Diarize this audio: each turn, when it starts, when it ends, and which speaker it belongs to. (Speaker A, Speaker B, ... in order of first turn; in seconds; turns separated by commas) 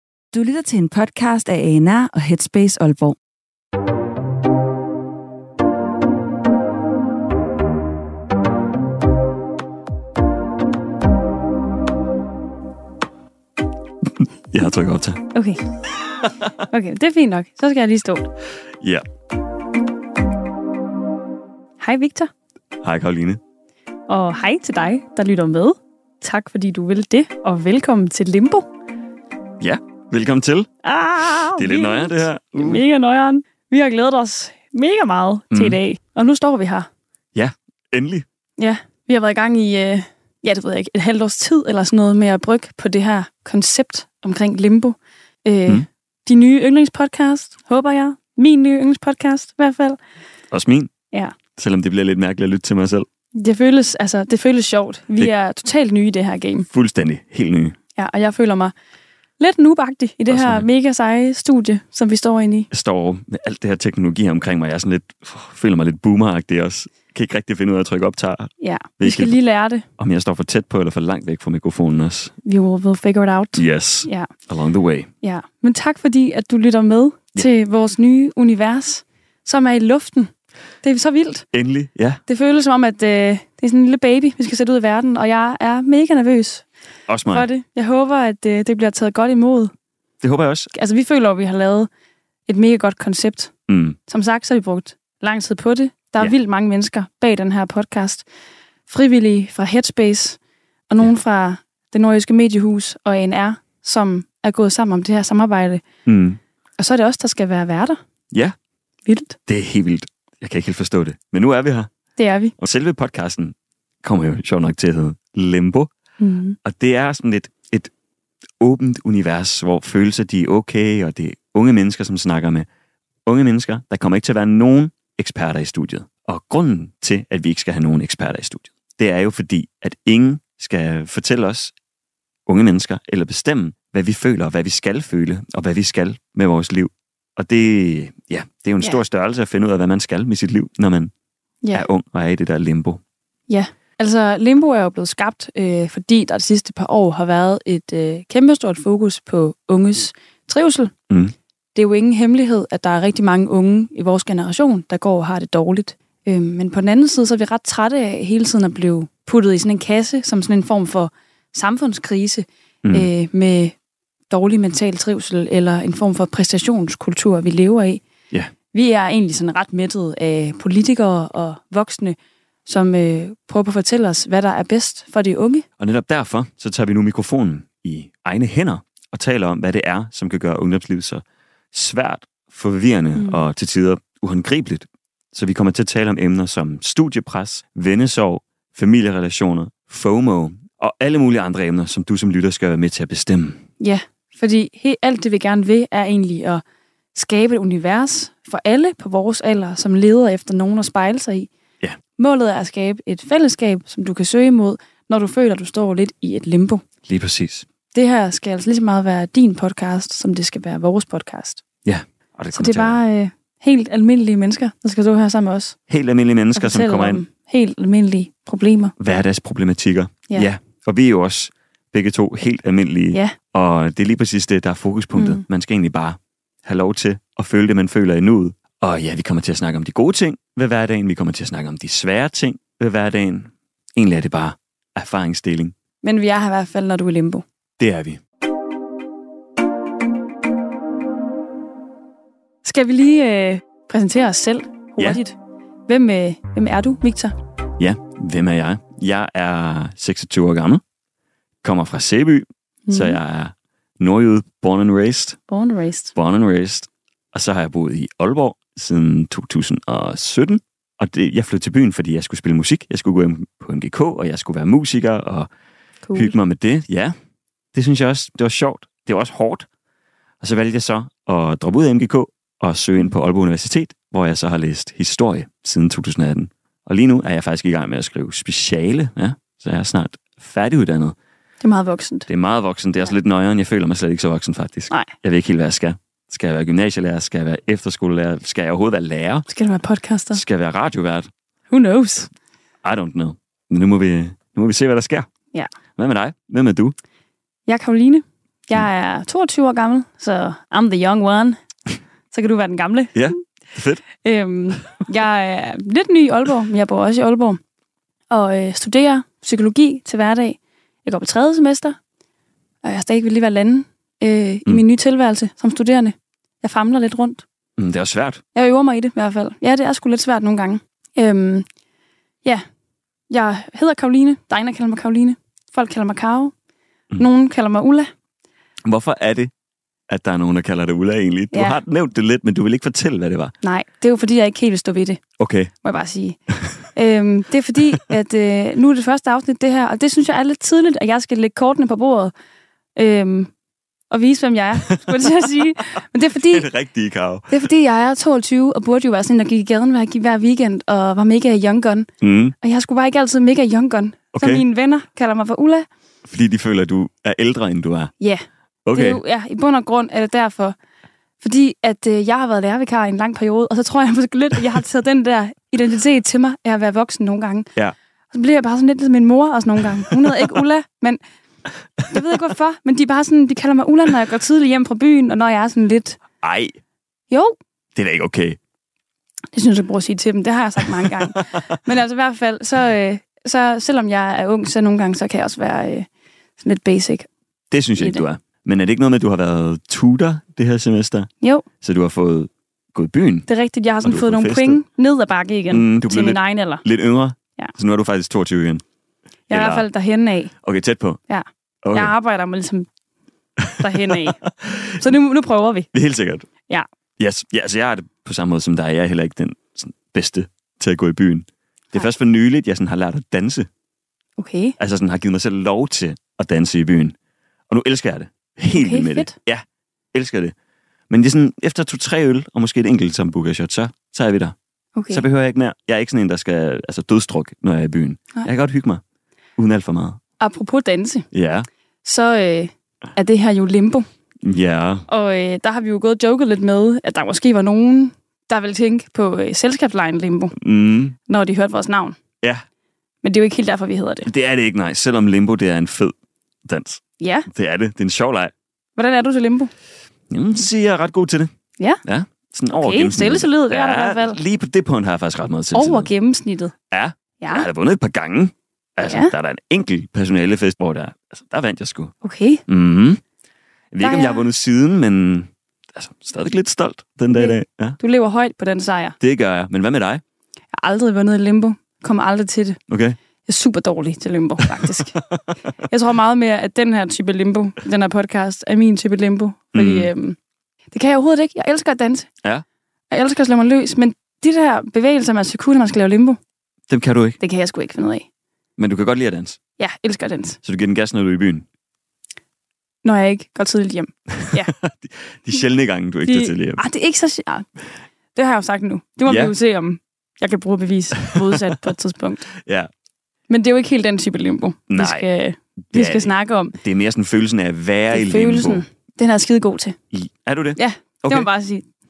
Speaker A: 0.3-3.2, Speaker B: 14.2-15.2, Speaker C: 15.3-15.6, Speaker C: 16.6-18.3, Speaker C: 21.8-22.3, Speaker B: 22.8-23.4, Speaker C: 24.1-28.6, Speaker B: 29.6-30.7, Speaker C: 30.8-36.9, Speaker B: 31.2-32.8, Speaker B: 35.5-35.8, Speaker B: 37.3-38.2, Speaker C: 38.6-50.0, Speaker B: 50.5-50.9, Speaker C: 51.1-51.4, Speaker B: 51.5-53.1, Speaker C: 53.3-56.7, Speaker B: 56.7-57.8, Speaker C: 58.0-58.7, Speaker C: 59.4-62.7, Speaker B: 60.3-60.7, Speaker B: 62.7-69.4, Speaker C: 68.6-69.8, Speaker B: 70.0-72.3, Speaker C: 72.4-74.3, Speaker B: 73.5-75.1, Speaker C: 75.2-80.3, Speaker C: 80.8-81.5, Speaker B: 81.5-82.2, Speaker C: 82.3-86.7, Speaker B: 87.1-87.5, Speaker C: 87.3-89.7, Speaker B: 90.2-90.7, Speaker C: 90.7-91.9, Speaker C: 92.5-93.5, Speaker B: 93.7-94.0, Speaker C: 94.1-98.2, Speaker C: 98.9-100.4, Speaker C: 100.9-105.8, Speaker B: 106.0-106.4, Speaker C: 106.8-108.0, Speaker C: 109.1-109.4, Speaker B: 109.5-111.9, Speaker C: 112.2-112.5, Speaker B: 112.6-115.9, Speaker C: 116.2-116.6, Speaker B: 116.6-117.9, Speaker B: 118.6-122.7, Speaker B: 123.2-131.7, Speaker B: 132.5-141.1, Speaker C: 141.6-141.9, Speaker B: 141.7-143.0, Speaker C: 143.5-150.9, Speaker B: 151.1-151.3, Speaker C: 151.7-163.7, Speaker B: 162.8-163.1, Speaker C: 164.3-168.0, Speaker C: 168.7-175.7, Speaker B: 175.8-193.6, Speaker C: 193.8-196.6, Speaker C: 197.1-201.5, Speaker C: 202.2-206.8, Speaker B: 207.1-207.7, Speaker C: 207.9-211.6, Speaker B: 211.8-213.0, Speaker C: 212.5-215.8, Speaker B: 215.9-217.2, Speaker C: 216.5-218.9, Speaker B: 219.0-235.7, Speaker C: 225.1-225.4, Speaker C: 236.0-237.4, Speaker B: 237.8-238.2, Speaker C: 242.6-245.3, Speaker C: 245.9-247.3, Speaker B: 247.8-250.8, Speaker B: 251.6-255.4, Speaker C: 252.9-253.2, Speaker C: 255.5-256.1, Speaker B: 256.1-265.5, Speaker C: 266.1-266.3, Speaker B: 266.1-267.1, Speaker B: 267.7-269.7, Speaker B: 270.4-281.1, Speaker C: 281.6-282.3, Speaker B: 282.3-289.5, Speaker C: 289.5-290.4, Speaker B: 290.3-291.3, Speaker C: 291.7-292.3, Speaker B: 292.8-295.3, Speaker B: 295.9-296.9, Speaker C: 297.6-301.6, Speaker C: 302.3-303.3, Speaker B: 303.1-304.0, Speaker C: 304.2-307.6, Speaker C: 308.3-312.0, Speaker C: 312.8-317.4, Speaker B: 317.8-318.4, Speaker C: 318.5-321.6, Speaker C: 323.3-326.5, Speaker C: 327.1-328.1, Speaker B: 328.9-329.5, Speaker B: 330.1-333.5, Speaker C: 331.5-331.8, Speaker C: 333.6-335.2, Speaker B: 335.4-335.7, Speaker C: 335.8-336.4, Speaker C: 336.9-342.3, Speaker C: 342.9-343.5, Speaker C: 344.1-346.7, Speaker B: 344.8-345.5, Speaker B: 346.3-347.7, Speaker C: 347.5-352.1, Speaker B: 352.2-352.5, Speaker C: 352.6-355.9, Speaker B: 354.3-354.6, Speaker B: 356.3-358.1, Speaker C: 358.2-360.8, Speaker B: 358.9-359.2, Speaker C: 361.4-367.7, Speaker C: 368.3-371.2, Speaker C: 372.1-376.2, Speaker B: 376.4-376.8, Speaker C: 377.3-377.6, Speaker B: 377.9-378.6, Speaker C: 379.5-386.1, Speaker B: 381.3-381.6, Speaker C: 386.6-387.3, Speaker B: 387.7-391.3, Speaker C: 388.0-388.2, Speaker C: 391.4-391.6, Speaker B: 391.8-393.5, Speaker C: 393.4-396.8, Speaker B: 394.0-394.8, Speaker B: 395.7-398.8, Speaker B: 399.5-399.9, Speaker C: 399.5-400.5, Speaker B: 400.6-401.2, Speaker C: 401.3-402.9, Speaker B: 401.8-402.1, Speaker B: 403.6-405.0, Speaker C: 403.8-405.9, Speaker B: 405.9-406.5, Speaker B: 407.2-413.7, Speaker C: 414.4-414.8, Speaker B: 414.8-417.1, Speaker B: 417.7-419.6, Speaker C: 418.7-419.3, Speaker B: 420.1-420.5, Speaker B: 421.1-424.5, Speaker C: 424.9-425.2, Speaker B: 425.1-429.0, Speaker B: 429.6-430.2, Speaker C: 430.4-431.3, Speaker B: 431.3-431.7, Speaker C: 432.0-434.0, Speaker B: 434.4-435.1, Speaker C: 435.1-440.6, Speaker B: 440.6-441.1, Speaker C: 441.2-442.2, Speaker C: 443.2-444.3, Speaker B: 444.2-446.1, Speaker B: 446.6-448.5, Speaker C: 447.2-447.5, Speaker C: 448.9-449.7, Speaker B: 450.3-451.5, Speaker B: 452.0-456.1, Speaker C: 452.7-454.4, Speaker C: 455.7-456.7, Speaker B: 456.9-462.1, Speaker C: 457.4-457.7, Speaker C: 459.0-459.3, Speaker C: 462.2-462.6, Speaker B: 462.7-463.2, Speaker B: 463.9-468.0, Speaker C: 464.0-464.5, Speaker C: 467.3-469.1, Speaker B: 469.2-470.2, Speaker C: 470.7-472.8, Speaker B: 472.9-473.1, Speaker C: 473.4-475.2, Speaker B: 474.8-475.5, Speaker C: 475.8-480.4, Speaker B: 479.7-480.1, Speaker C: 480.9-482.3, Speaker C: 483.1-486.4, Speaker B: 486.9-487.4, Speaker C: 487.4-488.2, Speaker B: 488.8-489.6, Speaker C: 489.8-490.6, Speaker B: 490.6-491.6, Speaker C: 493.0-494.7, Speaker B: 494.4-496.8, Speaker C: 496.2-497.7, Speaker C: 498.3-502.5, Speaker B: 499.3-499.5, Speaker B: 501.3-501.7, Speaker C: 503.5-506.8, Speaker B: 504.9-505.3, Speaker B: 505.9-508.8, Speaker C: 508.1-510.0, Speaker B: 510.1-511.5, Speaker C: 510.8-511.9